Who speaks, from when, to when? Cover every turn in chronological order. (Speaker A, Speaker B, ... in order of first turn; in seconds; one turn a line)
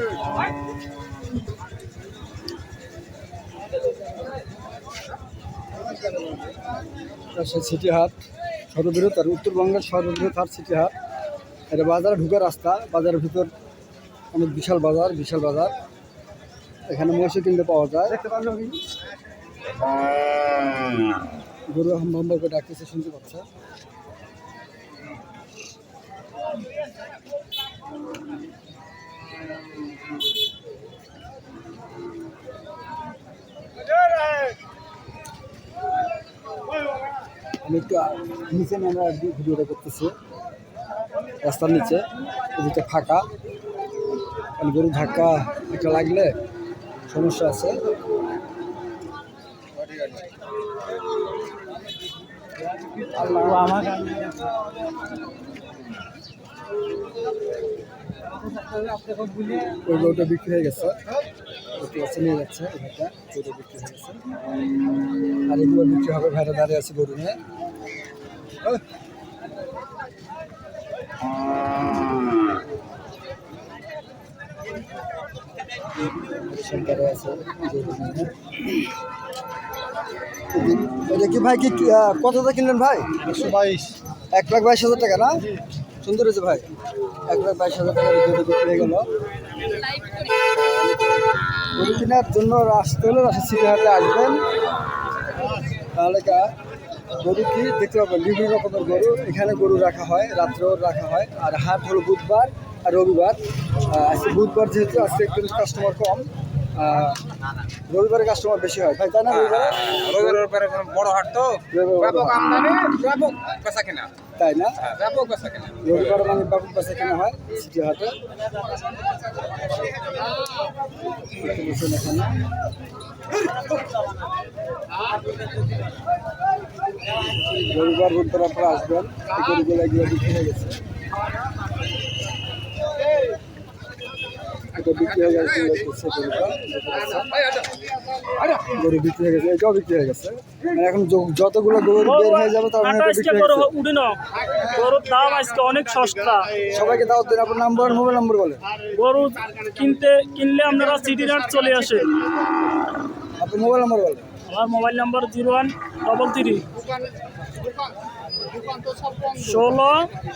Speaker A: 7.3-8.1
Speaker A: 8.7-10.9
Speaker A: 11.7-13.5
Speaker A: 14.3-15.7
Speaker A: 16.9-18.2
Speaker B: 18.2-18.8
Speaker A: 21.7-23.4
Speaker A: 37.6-40.1
Speaker A: 41.4-43.3
Speaker A: 44.6-46.3
Speaker A: 47.1-47.8
Speaker B: 53.1-54.2
Speaker A: 59.7-61.0
Speaker A: 61.7-64.2
Speaker A: 65.5-67.4
Speaker A: 76.3-78.3
Speaker A: 80.5-83.2
Speaker B: 83.2-83.9
Speaker A: 84.3-85.4
Speaker A: 86.0-86.7
Speaker A: 87.3-89.1
Speaker A: 90.4-91.2
Speaker A: 91.7-94.4
Speaker A: 95.9-96.5
Speaker A: 97.2-107.2
Speaker A: 107.9-110.4
Speaker B: 109.3-114.1
Speaker A: 111.7-112.5
Speaker A: 114.4-114.8
Speaker B: 114.8-115.9
Speaker A: 115.8-118.2
Speaker A: 121.3-122.4
Speaker A: 127.4-130.8
Speaker A: 134.7-137.4
Speaker A: 138.4-143.7
Speaker C: 142.0-146.5
Speaker A: 146.7-148.6
Speaker C: 148.9-152.1
Speaker A: 153.4-154.2
Speaker C: 154.5-157.0
Speaker C: 158.9-160.1